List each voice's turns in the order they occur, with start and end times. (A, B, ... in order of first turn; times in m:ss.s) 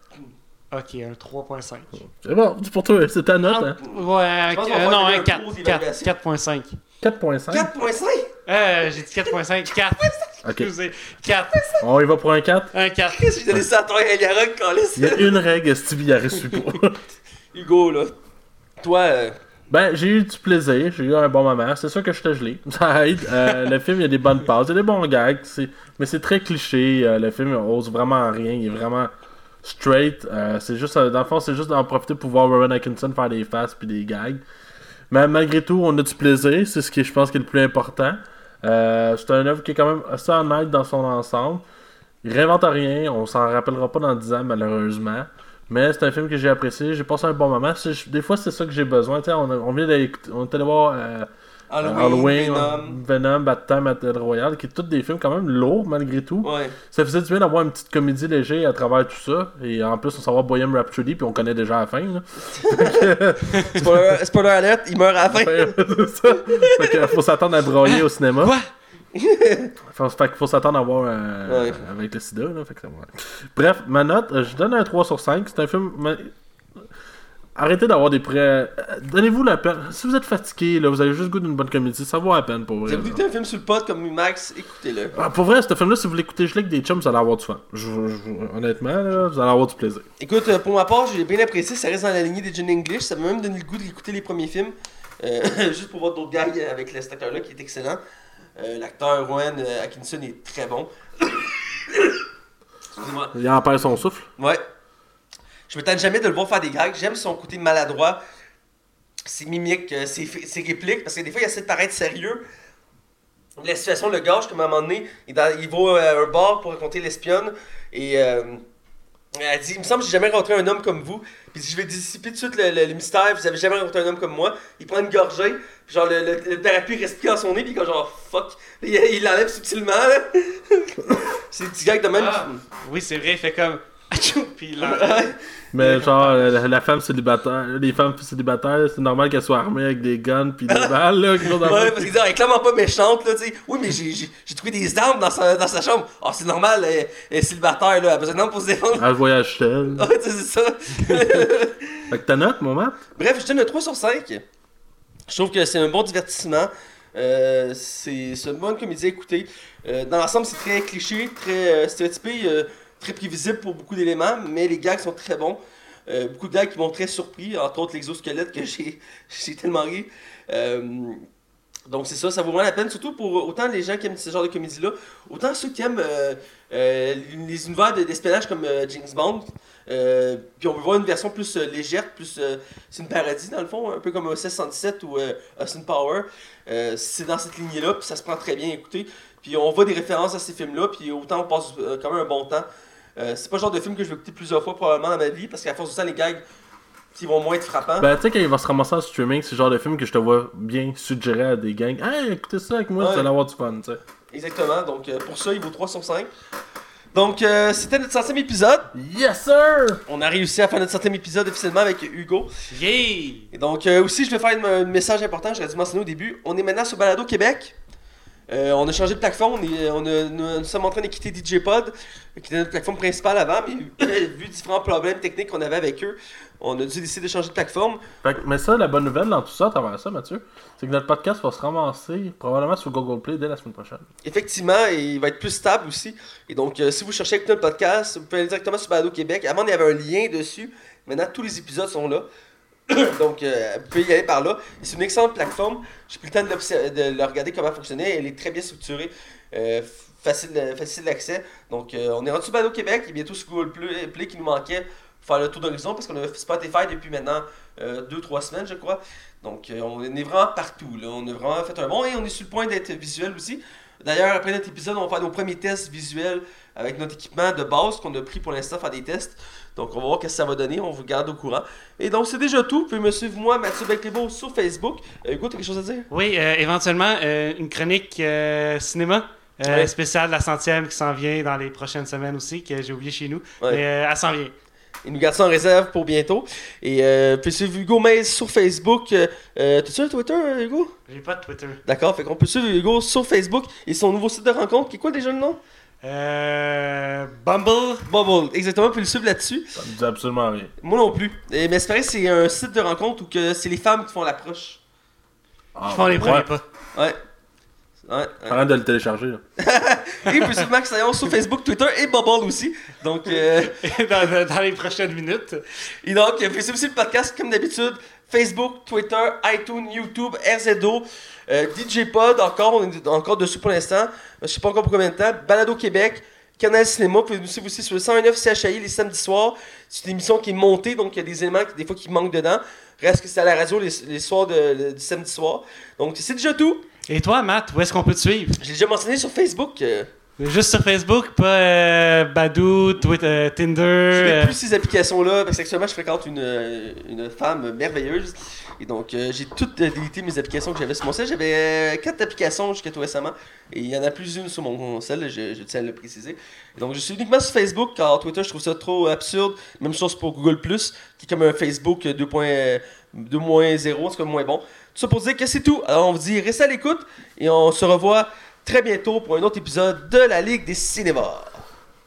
0:00.7-0:02.0 A
0:02.2-0:03.8 B
0:03.4-0:06.8 A
0:04.5-0:06.1 C
0:07.0-0:07.7 B
0:07.5-0:08.3 C
0:08.4-0:11.8 A
0:10.4-0:10.7 B
0:11.8-0:12.7 B
0:12.7-0:13.3 A
0:13.1-0:15.3 C
0:15.0-0:17.0 B
0:17.5-0:18.1 C
0:18.8-0:19.4 C
0:19.7-0:29.1 B
0:29.6-0:34.4 B
0:35.1-0:41.6 B
0:42.2-0:51.3 B
0:51.7-0:53.0 C
0:51.8-1:04.0 B
0:56.4-0:56.8 C
1:02.5-1:05.7 C
1:05.3-1:08.5 B
1:06.4-1:07.0 C
1:07.8-1:08.6 A
1:09.1-1:09.7 C
1:09.9-1:16.3 B
1:11.4-1:11.8 C
1:17.6-1:23.2 B
1:22.8-1:25.1 C
1:25.1-1:30.1 B
1:30.2-1:38.0 C
1:38.6-1:42.2 C
1:43.0-1:43.3 C
1:43.3-1:44.2 B
1:44.4-1:44.6 C
1:45.7-1:48.2 C
1:49.2-1:52.4 C
1:53.6-1:58.6 C
1:59.3-2:12.6 C
2:12.1-2:16.3 A
2:14.8-2:16.1 C
2:15.7-2:22.1 B
2:20.7-2:29.1 C
2:29.0-2:30.1 B
2:29.9-2:32.0 C
2:32.1-2:33.0 B
2:33.2-2:34.4 C
2:35.3-2:51.2 C
2:51.9-3:12.6 C
3:13.2-3:16.4 C
3:17.1-3:18.1 C
3:18.0-3:24.0 B
3:23.0-3:23.3 C
3:24.3-3:26.3 C
3:27.1-3:28.9 C
3:28.9-3:30.0 B
3:30.1-3:32.5 C
3:32.7-3:33.5 A
3:33.5-3:37.7 C
3:38.5-3:48.1 C
3:48.2-3:54.0 B
3:54.2-4:02.3 C
4:02.9-4:36.1 C
4:36.1-4:44.5 A
4:45.0-4:50.9 C
4:51.1-4:51.8 A
4:51.8-4:55.6 C
4:56.0-4:58.0 A
4:58.0-4:59.7 C
4:59.8-5:00.7 B
5:00.8-5:04.8 C
5:05.7-5:06.5 B
5:05.8-5:06.6 A
5:08.0-5:08.6 C
5:08.5-5:09.4 B
5:09.6-5:13.8 C
5:13.4-5:15.6 A
5:16.0-5:36.8 C
5:37.1-5:38.6 A
5:38.6-5:40.1 C
5:40.4-5:44.6 A
5:44.1-6:11.6 C